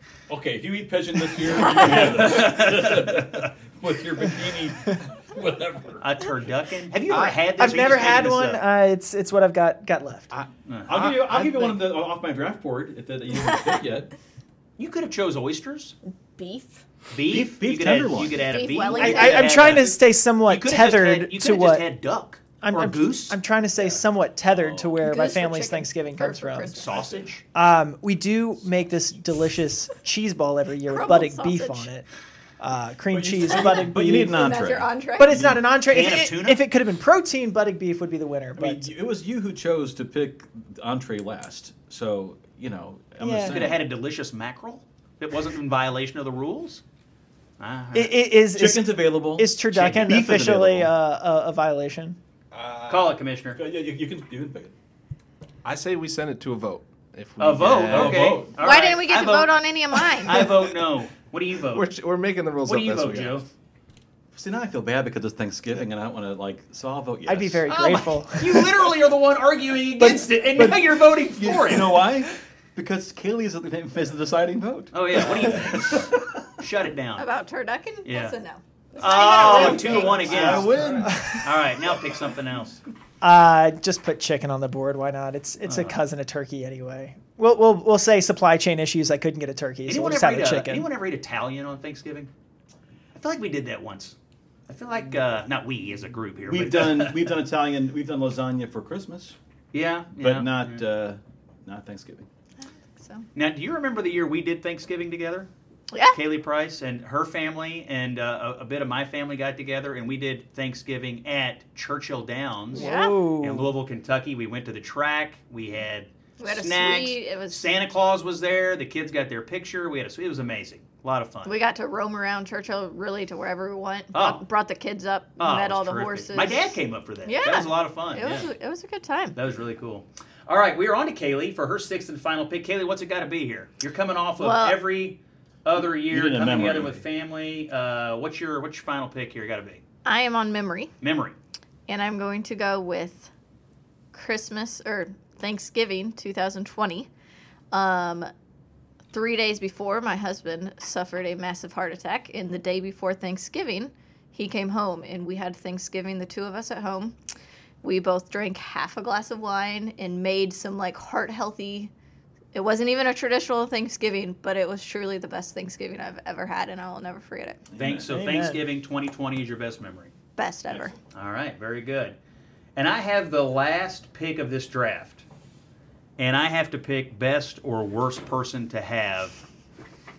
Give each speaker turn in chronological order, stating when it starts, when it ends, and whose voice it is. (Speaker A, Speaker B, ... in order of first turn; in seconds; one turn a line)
Speaker A: 0.3-6.2
Speaker B: 1.7-3.5
Speaker B: 6.0-8.6
Speaker C: 7.1-7.4
Speaker D: 7.1-10.3
Speaker B: 10.7-11.5
Speaker A: 10.9-14.1
Speaker C: 11.0-11.7
Speaker B: 14.8-15.9
Speaker E: 16.2-16.8
Speaker B: 17.1-23.4
Speaker A: 17.3-18.5
Speaker E: 18.4-19.6
Speaker D: 18.9-21.8
Speaker D: 22.6-26.8
Speaker A: 24.4-25.0
Speaker E: 25.0-27.2
Speaker B: 26.7-27.4
Speaker D: 27.5-32.0
Speaker E: 30.9-31.9
Speaker D: 32.6-34.4
Speaker A: 33.1-35.6
Speaker E: 33.5-35.5
Speaker D: 35.2-38.9
Speaker B: 35.9-36.6
Speaker A: 38.5-43.9
Speaker D: 43.2-43.7
Speaker B: 43.5-46.8
Speaker B: 47.6-48.2
Speaker D: 47.9-52.2
Speaker A: 48.5-50.9
Speaker C: 52.5-53.1
Speaker B: 52.9-53.6
Speaker A: 53.5-54.7
Speaker C: 55.6-58.4
Speaker B: 57.4-59.6
Speaker A: 57.9-58.5
Speaker E: 58.6-60.4
Speaker B: 60.2-61.9
Speaker C: 61.7-63.4
Speaker B: 62.6-63.4
Speaker A: 64.3-67.7
Speaker D: 67.2-68.9
Speaker B: 67.7-72.0
Speaker D: 70.0-70.3
Speaker A: 70.1-76.5
Speaker B: 74.9-77.2
Speaker E: 77.2-80.5
Speaker B: 78.0-78.3
Speaker B: 79.0-80.8
Speaker A: 79.5-81.2
Speaker C: 79.5-81.1
Speaker D: 80.3-81.6
Speaker B: 81.4-82.8
Speaker D: 83.2-90.9
Speaker B: 85.6-86.0
Speaker B: 89.8-92.3
Speaker B: 93.1-94.1
Speaker B: 94.7-97.3
Speaker A: 96.5-99.3
Speaker B: 99.7-100.8
Speaker A: 100.1-102.3
Speaker E: 102.9-103.2
Speaker B: 103.3-105.5
Speaker E: 105.9-106.2
Speaker B: 106.1-121.5
Speaker D: 112.7-113.7
Speaker E: 112.7-113.2
Speaker E: 116.4-117.8
Speaker E: 121.4-129.3
Speaker B: 124.1-124.4
Speaker B: 125.4-128.4
Speaker B: 129.3-139.8
Speaker E: 134.4-134.8
Speaker A: 136.0-137.0
Speaker E: 140.0-140.9
Speaker B: 141.0-141.3
Speaker E: 141.9-143.3
Speaker E: 144.1-147.1
Speaker E: 147.7-148.3
Speaker E: 149.1-157.2
Speaker E: 157.8-161.9
Speaker E: 162.5-167.6
Speaker A: 167.7-168.1
Speaker B: 167.8-170.1
Speaker D: 168.1-168.6
Speaker E: 170.4-170.9
Speaker B: 171.0-172.2
Speaker B: 172.8-175.2
Speaker B: 176.2-179.4